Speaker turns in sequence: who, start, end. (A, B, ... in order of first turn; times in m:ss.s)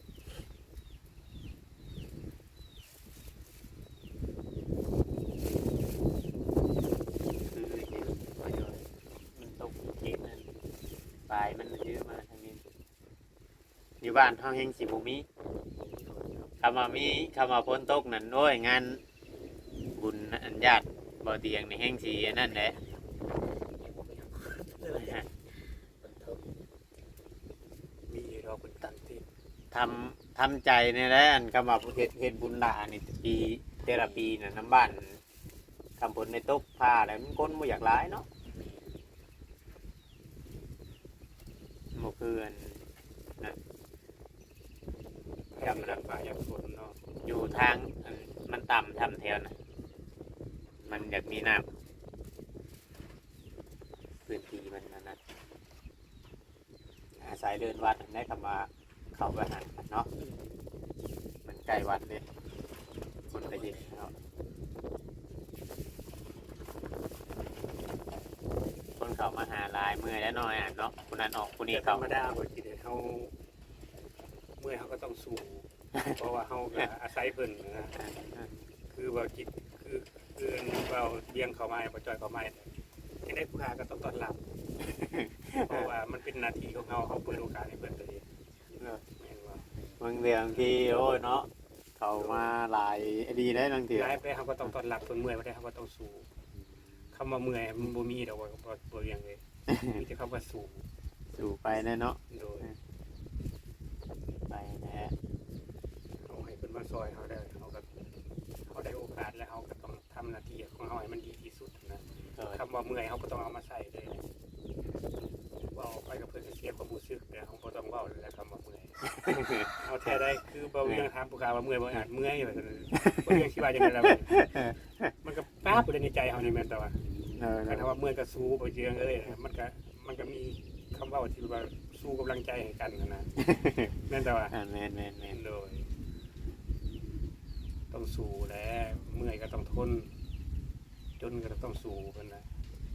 0:07.5-0:10.5 A
0:11.3-0:12.6 A
0:14.0-0:15.2 A
0:15.8-0:16.5 B
0:16.6-0:19.0 A
0:19.9-0:22.8 A
0:22.4-0:26.4 B
0:24.9-0:25.2 A
0:28.1-0:29.2 C
0:29.7-0:35.2 A
0:33.8-0:34.3 B
0:36.0-0:38.2 A
0:38.5-0:39.0 B
0:41.9-0:42.8 A
0:45.5-0:47.0 C
0:45.6-0:46.0 A
0:47.2-0:49.5 A
0:50.9-0:51.7 A
0:54.3-0:55.2 A
0:57.2-1:00.1 A
1:00.2-1:00.6 B
1:01.4-1:02.2 A
1:03.3-1:04.0 B
1:03.3-1:04.1 A
1:09.0-1:12.1 A
1:11.7-1:13.3 C
1:14.6-1:18.0 C
1:18.0-1:18.5 A
1:18.9-1:22.7 C
1:23.2-1:24.4 C
1:25.0-1:25.9 A
1:25.6-1:28.2 C
1:28.7-1:29.0 A
1:29.2-1:29.6 C
1:29.7-1:30.0 B
1:30.0-1:34.2 A
1:30.5-1:30.9 C
1:32.1-1:32.5 C
1:33.9-1:36.3 C
1:36.6-1:37.0 B
1:37.1-1:40.8 C
1:39.7-1:40.0 A
1:41.3-1:42.7 A
1:42.3-1:42.7 C
1:44.5-1:45.1 A
1:46.2-1:47.9 C
1:48.7-1:54.2 C
1:55.6-1:59.0 C
1:59.1-2:00.2 A
1:59.8-2:04.6 C
2:03.0-2:03.4 A
2:04.0-2:05.1 A
2:05.2-2:07.0 C
2:07.4-2:07.9 A
2:07.6-2:13.3 C
2:13.4-2:13.9 A
2:14.0-2:14.5 C
2:14.5-2:15.4 A
2:15.3-2:15.9 C
2:17.9-2:20.1 C
2:21.2-2:22.5 C